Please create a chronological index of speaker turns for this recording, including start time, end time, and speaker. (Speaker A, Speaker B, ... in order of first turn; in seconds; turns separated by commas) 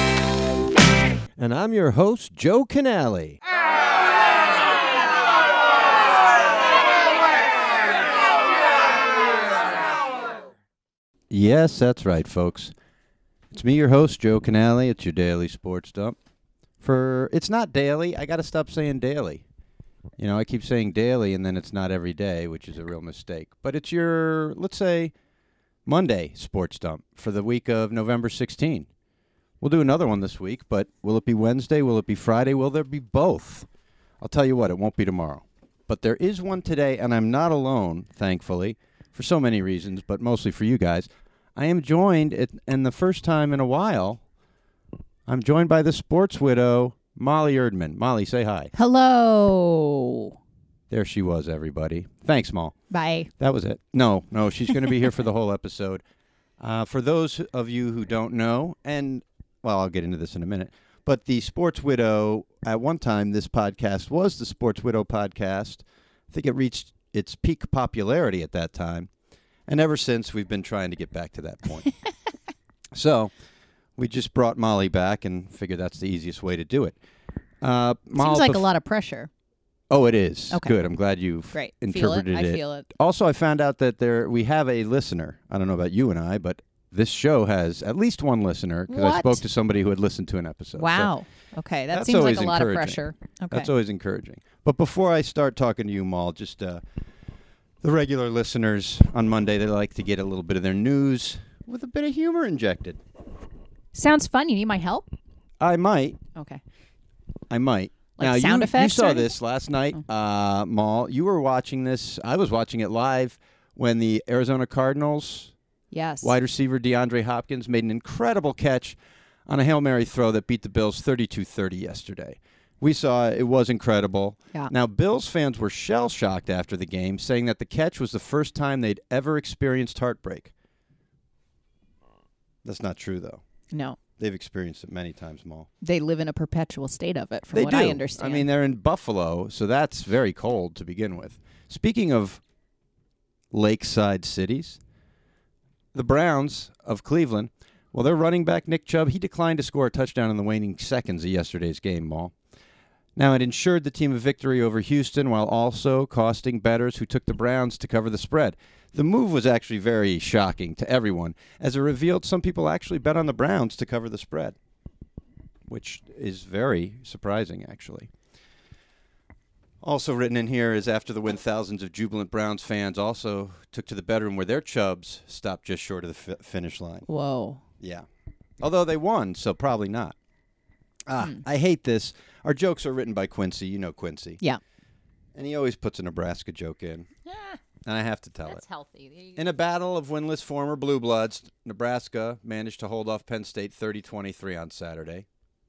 Speaker A: 1.4-3.4, Speaker A: 11.3-12.7, Speaker A: 13.5-16.2, Speaker A: 16.8-19.4, Speaker A: 20.2-25.1, Speaker A: 25.9-28.9, Speaker A: 29.6-33.7, Speaker A: 34.2-44.2, Speaker A: 45.3-48.7, Speaker B: 48.7-50.4, Speaker A: 50.9-52.7, Speaker B: 52.9-53.3, Speaker A: 53.4-56.0, Speaker A: 56.6-69.1, Speaker A: 69.7-71.9, Speaker A: 72.9-73.3, Speaker A: 74.0-77.0, Speaker A: 77.6-78.7, Speaker B: 78.2-79.3, Speaker A: 79.9-91.1, Speaker B: 81.5-82.9, Speaker B: 88.9-89.4, Speaker B: 90.8-93.7, Speaker A: 91.9-93.0, Speaker A: 93.5-96.8, Speaker A: 97.8-103.0, Speaker B: 103.9-105.1, Speaker A: 105.6-106.2, Speaker B: 106.3-106.6, Speaker A: 107.5-115.5, Speaker B: 108.2-109.3, Speaker B: 115.9-116.3, Speaker A: 116.2-130.5, Speaker A: 132.6-133.4, Speaker B: 133.7-134.0, Speaker A: 134.2-135.7, Speaker B: 135.8-138.5, Speaker A: 137.5-142.4, Speaker A: 143.5-144.8, Speaker A: 145.9-152.3, Speaker A: 153.2-164.6, Speaker A: 165.7-168.1, Speaker A: 169.8-177.1, Speaker B: 177.1-177.6, Speaker A: 177.8-178.1, Speaker A: 178.6-180.1, Speaker A: 181.1-184.4, Speaker A: 185.3-187.1, Speaker B: 187.3-187.6, Speaker A: 187.8-188.6, Speaker B: 188.4-189.4, Speaker A: 189.4-195.3